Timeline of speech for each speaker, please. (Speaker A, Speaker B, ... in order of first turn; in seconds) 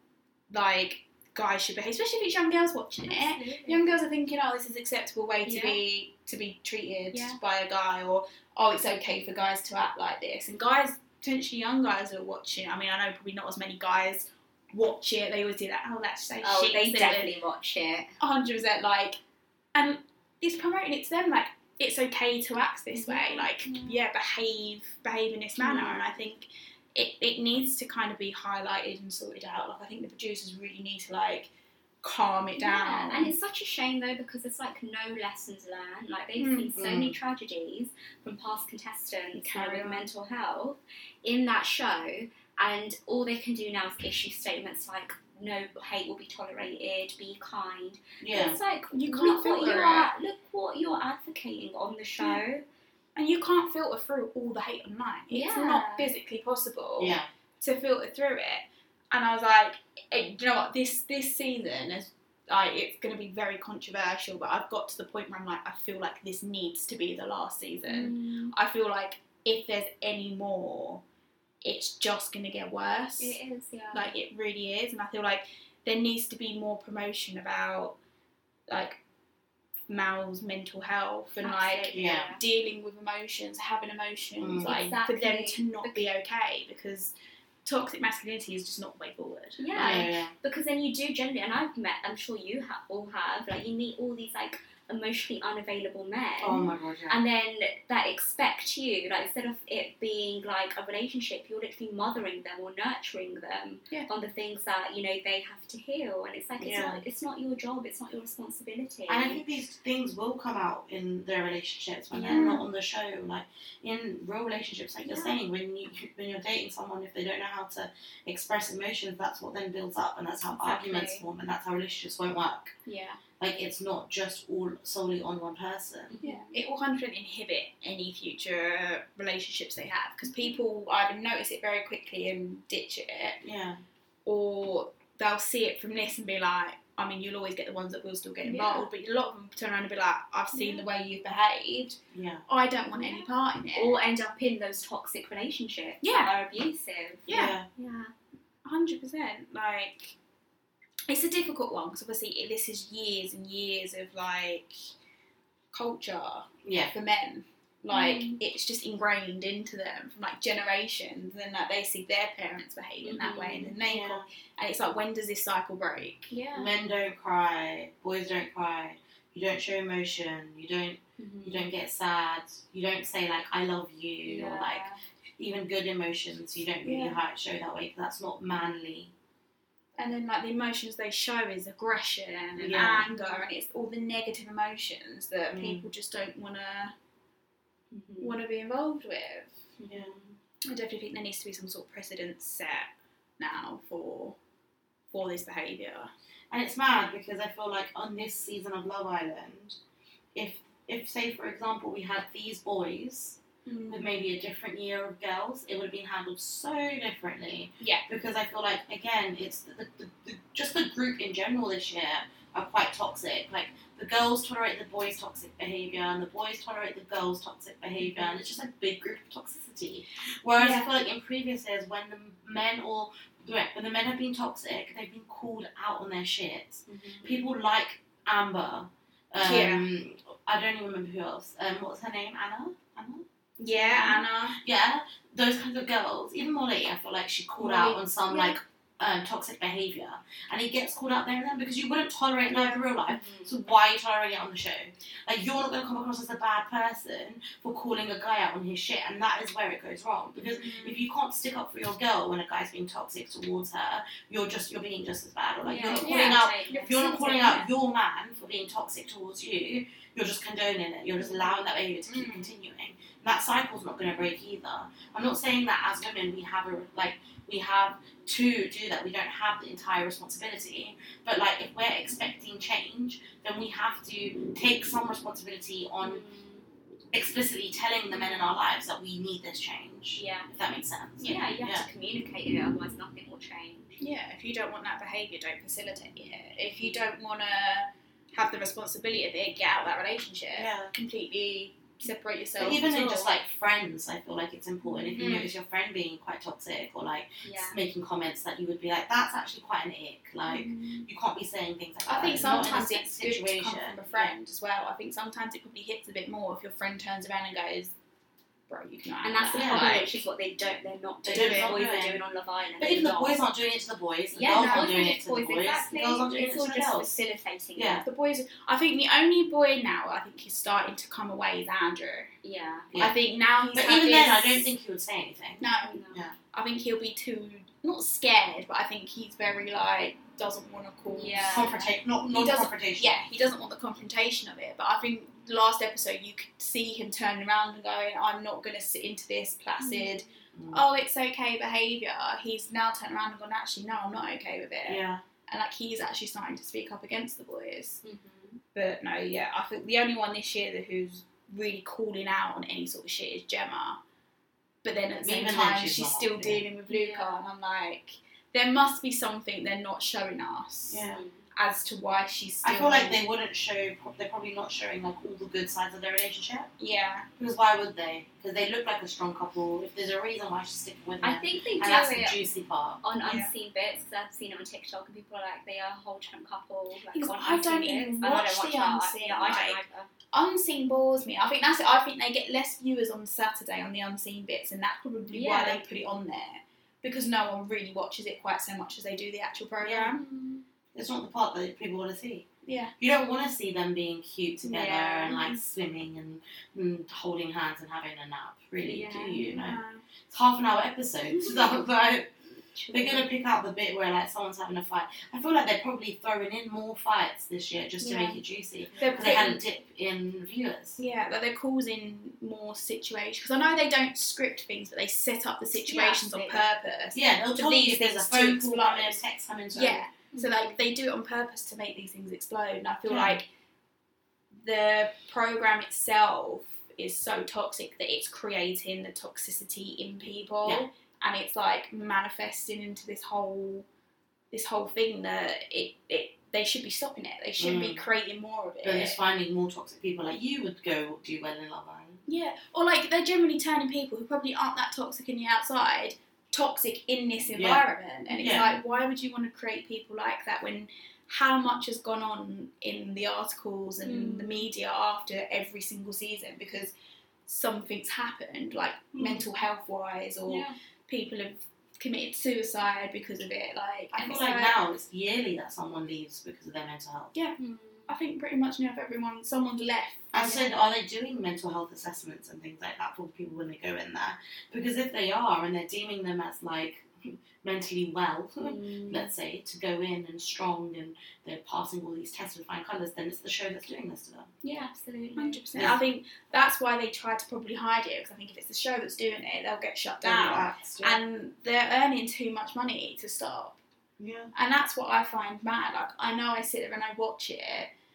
Speaker A: 0.5-17.3, 18.2-19.2, 19.7-31.5, 32.0-33.3, 36.4-36.7, 39.3-40.0, 48.9-50.1, 53.1-71.0, 71.6-73.4, 73.9-78.0, 78.7-79.0, 79.9-87.1, 87.6-90.0, 112.3-112.6, 126.2-133.4, 134.2-144.0, 146.0-146.3, 147.3-147.6, 148.7-150.2, 151.1-154.9, 155.7-166.3, 176.8-177.2, 180.0-186.9, 188.2-189.6, 190.7-194.4, 195.1-196.1, 203.7-204.1, 207.8-208.0, 220.6-220.9, 229.4-229.8, 233.6-234.6, 237.6-238.6, 242.5-242.8, 250.6-251.0, 255.8-257.4, 262.1-262.5, 284.0-293.3, 295.1-295.5, 300.5-301.1, 302.1-307.9, 308.7-310.1, 311.3-311.8, 314.6-315.1, 318.0-322.3, 322.9-324.7, 325.6-331.5, 332.3-348.0, 348.7-354.0, 354.8-361.0, 361.5-363.2, 366.8-367.3, 373.2-373.5, 377.1-379.8, 380.3-390.2, 392.6-392.9, 399.5-400.0, 409.0-409.6, 411.0-419.2, 419.7-423.5, 424.6-433.9, 434.5-439.2, 442.3-456.9, 457.5-464.8, 468.1-470.3, 484.7-493.8, 494.5-497.9
Speaker B: 3.0-4.0, 5.4-5.8, 7.1-7.4, 16.4-18.1, 22.9-24.0, 25.6-26.2, 32.6-52.6, 55.3-56.1, 67.8-68.5, 73.2-74.1, 81.4-82.4, 84.6-86.1, 89.6-109.4, 112.1-112.6, 115.0-115.4, 120.5-121.2, 122.8-123.2, 126.1-126.6, 130.2-130.6, 138.4-138.9, 140.5-140.8, 142.9-148.1, 157.9-158.4, 163.0-163.8, 166.3-166.8, 171.2-171.7, 174.2-174.9, 183.0-183.5, 187.9-188.4, 189.8-190.4, 226.9-227.5, 233.7-234.2, 243.1-243.6, 250.4-250.8, 255.6-257.7, 261.2-261.6, 276.0-276.6, 278.1-278.4, 280.1-280.5, 281.2-283.9, 286.7-287.1, 294.9-295.4, 297.4-297.8, 309.2-313.4, 314.3-318.0, 322.4-322.9, 325.8-326.3, 331.1-331.9, 339.8-340.3, 348.0-348.6, 356.9-357.4, 361.1-361.4, 371.2-372.4, 373.0-380.1, 385.3-385.8, 390.1-390.6, 394.6-395.6, 398.8-399.5, 401.4-401.8, 402.7-403.2, 408.0-408.4, 409.0-409.3, 415.9-416.6, 420.3-420.8, 454.0-454.7, 459.1-459.4, 460.5-460.7, 467.6-468.1, 470.4-470.6, 478.6-479.3, 484.6-485.6
Speaker C: 36.7-37.2, 48.2-48.6, 57.0-57.3, 81.9-82.3, 84.4-84.8, 89.7-90.3, 96.4-97.2, 106.6-107.0, 109.1-122.7, 123.4-126.1, 133.4-133.8, 142.1-142.4, 147.3-147.7, 156.6-156.9, 163.8-164.3, 166.5-174.8, 175.4-179.1, 182.6-183.1, 185.5-185.8, 189.9-190.2, 196.5-199.8, 200.3-233.2, 234.6-276.2, 277.1-281.8, 290.5-290.9, 292.6-304.3, 309.5-310.0, 311.2-312.2, 312.8-317.1, 317.8-318.0, 323.7-326.4, 331.4-333.2, 340.5-340.8, 344.9-345.2, 355.2-356.6, 360.9-361.2, 362.6-366.7, 367.4-373.0, 389.8-390.1, 390.9-392.4, 393.0-402.4, 402.9-411.0, 417.1-420.1, 423.1-423.4, 437.6-438.0, 438.8-442.2, 447.5-447.8, 448.3-448.7, 464.1-467.3, 470.3-484.5, 490.2-491.2, 494.2-494.5